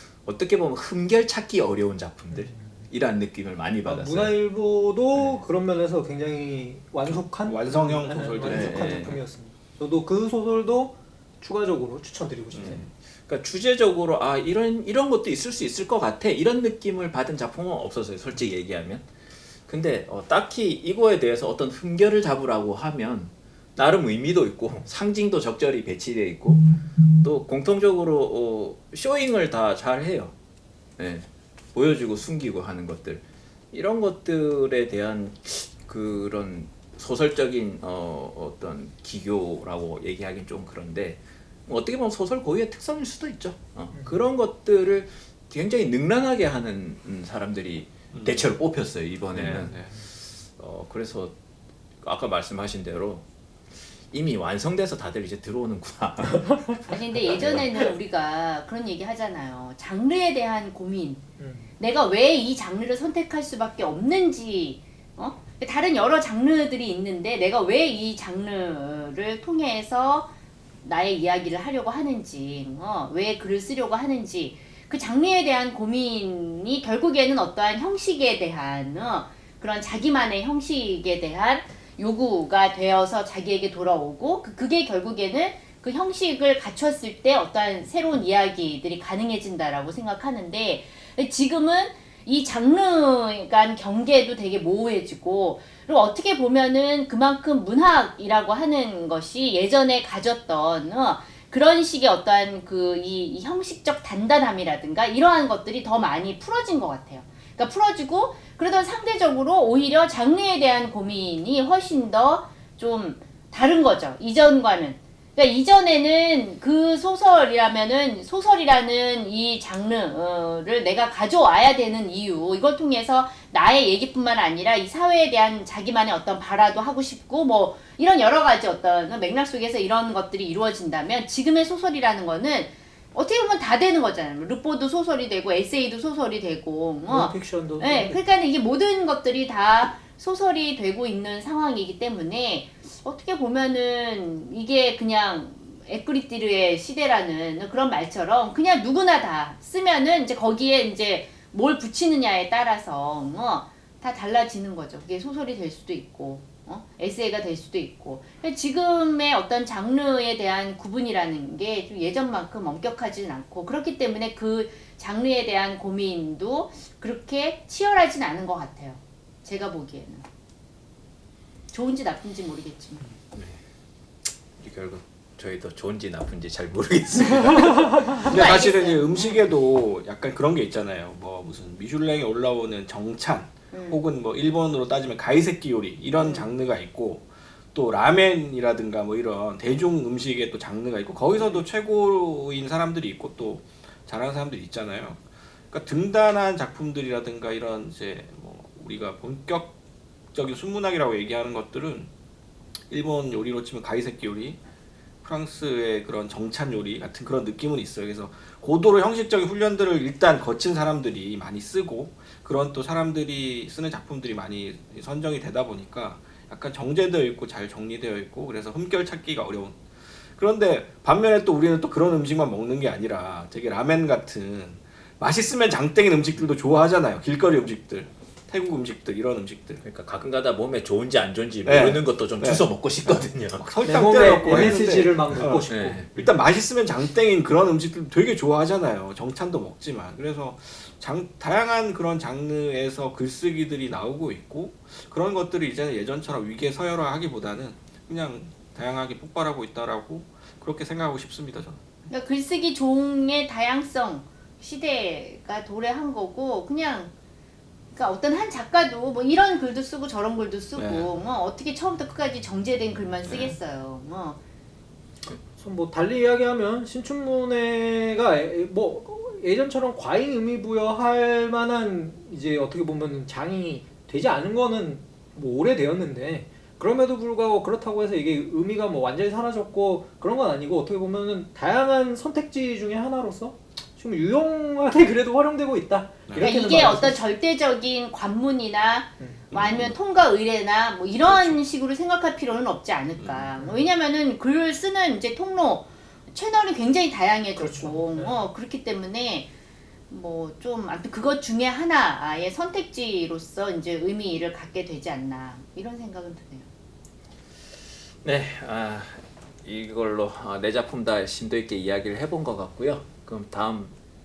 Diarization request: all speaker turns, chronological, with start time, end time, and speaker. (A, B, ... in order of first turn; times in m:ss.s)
0:00.2-0:04.3 A
0:02.3-0:02.7 B
0:03.8-0:12.8 B
0:07.1-0:09.2 C
0:08.4-0:09.2 A
0:12.5-0:12.9 C
0:12.7-0:19.1 A
0:19.7-0:30.3 A
0:31.0-0:49.9 A
0:48.1-0:48.4 C
0:49.3-0:49.9 C
0:50.5-0:51.3 A
0:52.0-0:53.2 A
0:54.1-0:57.7 A
0:56.9-1:01.2 D
1:01.4-1:01.7 B
1:01.8-1:10.3 D
1:10.8-2:50.2 D
2:17.1-2:18.2 B
2:51.7-2:53.0 D
2:53.3-2:53.6 A
2:54.6-2:58.2 A
2:58.2-3:19.7 C
2:58.2-2:59.4 D
3:03.7-3:04.0 D
3:06.2-3:06.5 D
3:20.3-3:22.1 C
3:22.9-3:24.6 C
3:25.2-3:39.8 C
3:40.4-3:49.8 C
3:49.8-3:53.7 A
3:51.7-4:11.8 C
3:53.8-3:56.2 B
3:54.5-3:54.8 A
3:55.7-3:56.1 A
4:12.1-4:17.1 D
4:18.0-4:24.4 D
4:20.8-4:21.1 C
4:25.5-4:47.2 B
4:46.4-4:59.5 D
4:49.5-4:50.0 C
4:51.3-4:51.6 C
4:53.2-4:53.5 C
4:53.6-4:53.9 B
4:57.6-4:58.4 B
5:00.1-5:06.7 D
5:08.2-5:13.9 A